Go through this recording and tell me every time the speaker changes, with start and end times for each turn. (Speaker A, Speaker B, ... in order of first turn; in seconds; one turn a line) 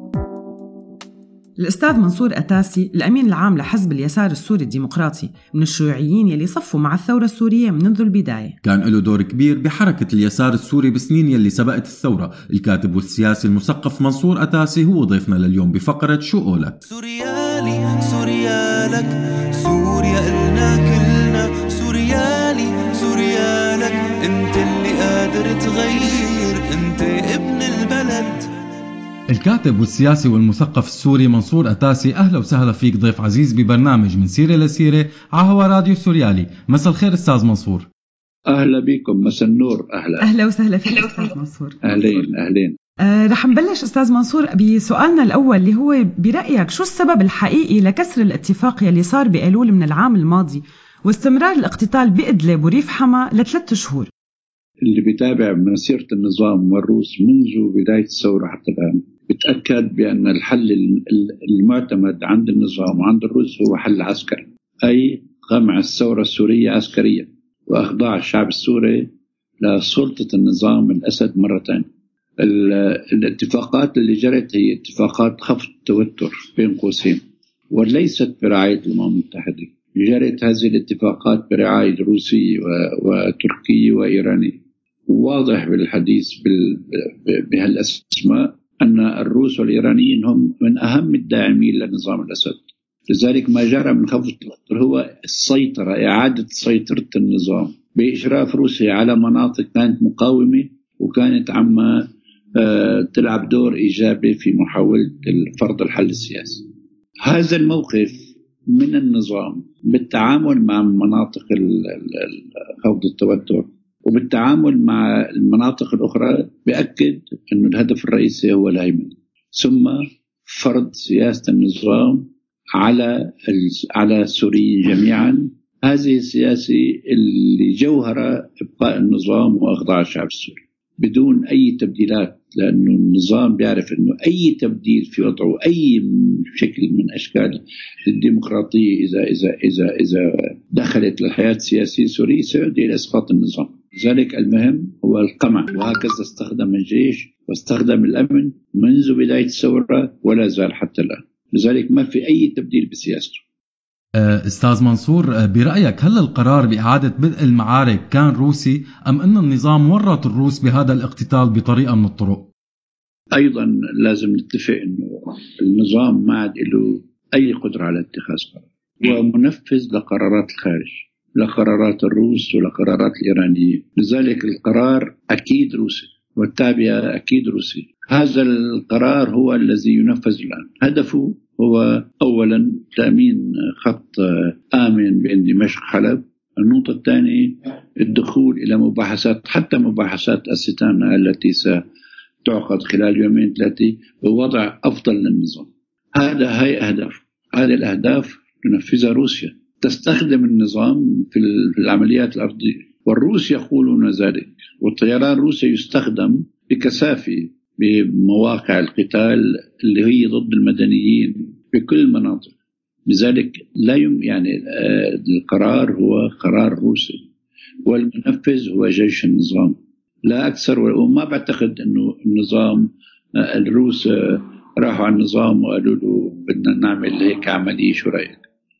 Speaker A: 1.6-8.6
Speaker B: 8.6-16.8
Speaker C: 16.9-28.5
Speaker B: 29.3-37.9
Speaker D: 38.5-40.3
Speaker A: 40.2-41.8
Speaker D: 41.9-42.8
Speaker A: 43.0-54.1
Speaker D: 54.9-69.1
Speaker D: 69.6-71.9
Speaker D: 72.4-106.6
Speaker D: 107.2-122.3
Speaker D: 122.8-153.4
Speaker B: 154.2-162.5
Speaker D: 163.3-191.8
Speaker D: 192.4-212.5
Speaker D: 213.1-217.2
Speaker D: 217.9-228.4